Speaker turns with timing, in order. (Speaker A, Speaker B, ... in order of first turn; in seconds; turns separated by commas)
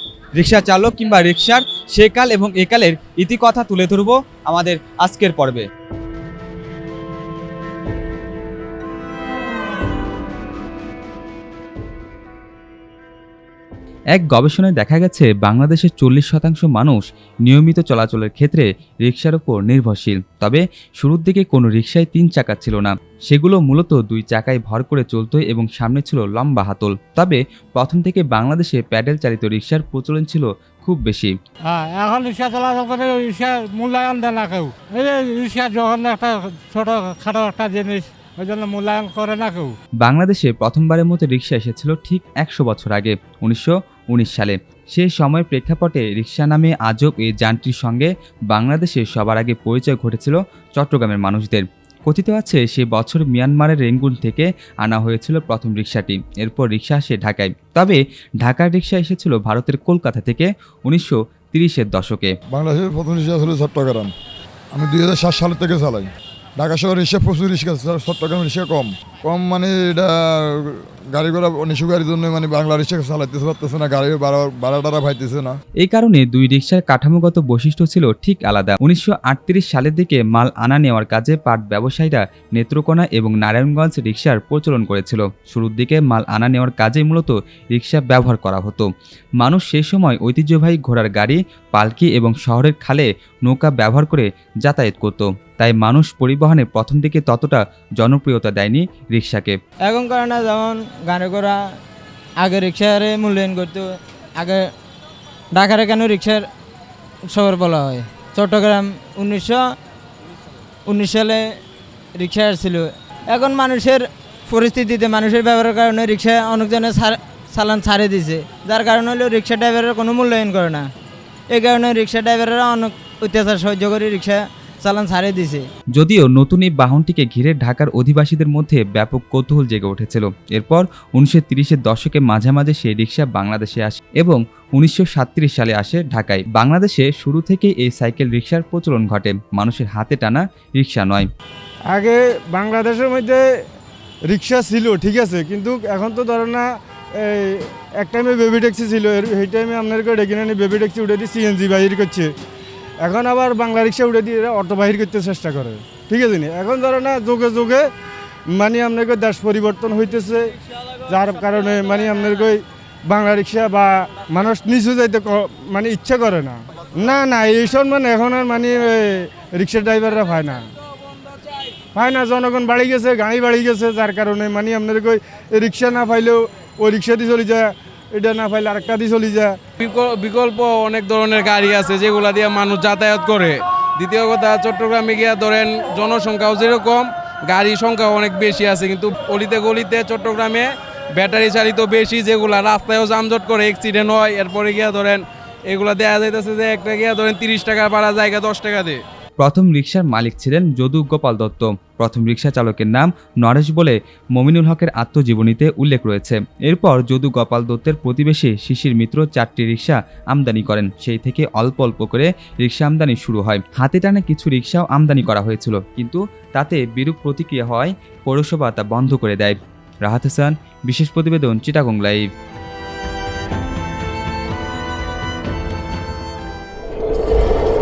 Speaker A: 0.3-5.6, Speaker A: 14.1-31.3, Speaker B: 31.7-39.8, Speaker A: 40.0-62.3, Speaker C: 62.5-64.1, Speaker C: 64.7-75.6, Speaker A: 75.8-88.9, Speaker A: 89.4-99.6, Speaker D: 99.9-101.6, Speaker D: 102.4-104.7, Speaker D: 105.5-106.5, Speaker D: 107.3-109.7, Speaker D: 110.8-111.6, Speaker D: 112.2-120.9, Speaker D: 121.5-125.7, Speaker A: 126.0-141.3, Speaker E: 141.9-143.4, Speaker E: 144.3-146.6, Speaker E: 147.2-152.3, Speaker E: 153.0-157.9, Speaker E: 158.5-160.5, Speaker E: 161.1-170.6, Speaker E: 171.9-179.6, Speaker F: 179.8-199.0, Speaker A: 199.4-222.2